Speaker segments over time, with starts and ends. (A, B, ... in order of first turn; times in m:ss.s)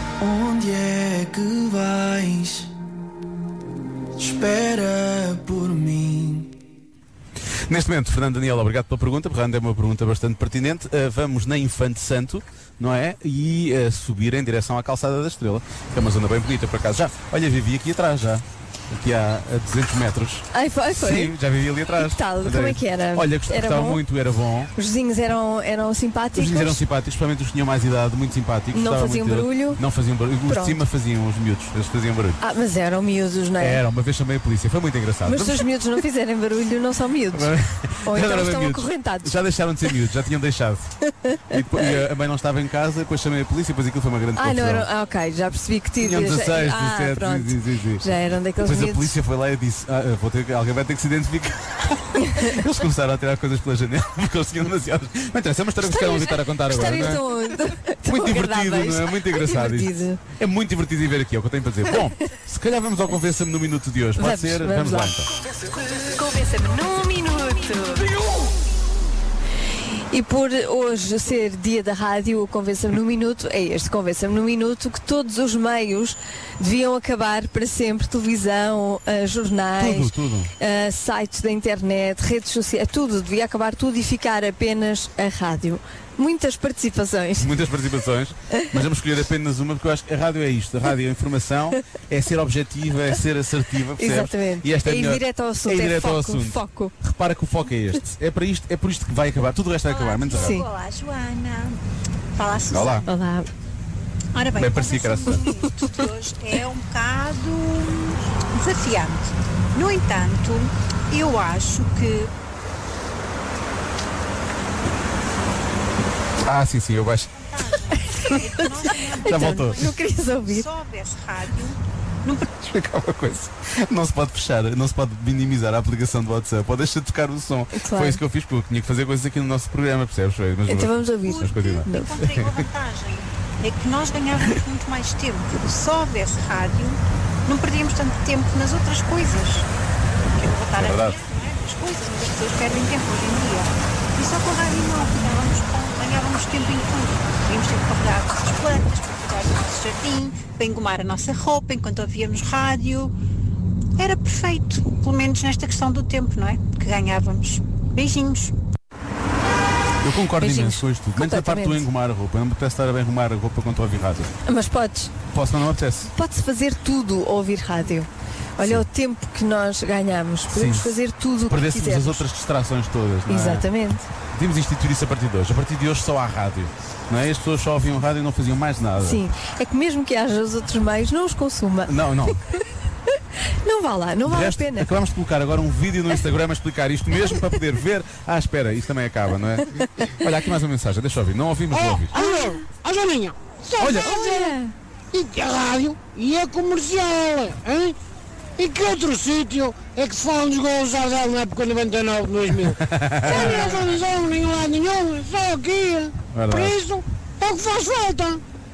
0:00.2-0:02.7 A
0:04.2-0:06.5 A
0:07.7-0:24.7 B
0:20.5-0:21.3 C
0:22.0-0:24.0 C
0:24.7-0:26.8 C
0:26.3-0:32.4 B
0:28.7-0:29.8 C
0:30.4-0:30.8 C
0:32.4-0:33.8 C
0:33.6-0:35.7 B
0:35.2-0:37.5 C
0:37.3-0:40.9 B
0:38.0-0:39.9 C
0:41.2-0:41.6 C
0:41.4-0:44.9 B
0:44.3-0:49.1 C
0:46.0-0:57.2 B
0:52.2-0:52.6 C
0:55.8-1:00.2 C
0:58.0-1:05.3 B
1:04.2-1:05.1 C
1:06.0-1:08.1 C
1:10.1-1:27.5 C
1:19.8-1:20.5 B
1:27.4-1:40.6 B
1:28.5-1:28.8 C
1:34.0-1:36.9 C
1:39.8-1:41.8 D
1:40.4-1:40.6 C
1:42.4-1:43.1 D
1:42.7-1:43.1 B
1:43.0-1:43.5 C
1:44.3-1:52.3 D
1:44.5-1:45.5 B
1:56.4-1:57.3 B
1:57.4-2:02.5 D
1:58.2-2:00.6 C
1:59.2-1:59.9 B
2:02.5-2:12.6 B
2:07.7-2:08.2 C
2:10.7-2:12.1 C
2:11.3-2:19.7 D
2:20.3-2:33.1 D
2:20.7-2:21.2 B
2:34.0-2:38.5 D
2:40.0-2:44.3 B
2:40.3-2:41.8 C
2:44.4-2:45.1 C
2:45.3-2:46.1 B
2:46.1-2:52.2 C
2:48.6-2:48.9 B
2:50.5-2:50.9 B
2:51.4-2:53.7 B
2:53.2-2:54.0 C
2:54.3-2:59.2 B
2:59.0-3:02.6 C
3:01.8-3:02.4 B
3:03.5-3:04.9 C
3:04.2-3:12.2 B
3:11.7-3:14.6 E
3:12.1-3:12.7 C
3:13.8-3:14.5 B
3:13.8-3:14.7 C
3:15.1-3:18.0 E
3:18.6-3:28.4 E
3:22.7-3:23.9 B
3:23.2-3:24.0 C
3:26.3-3:26.8 B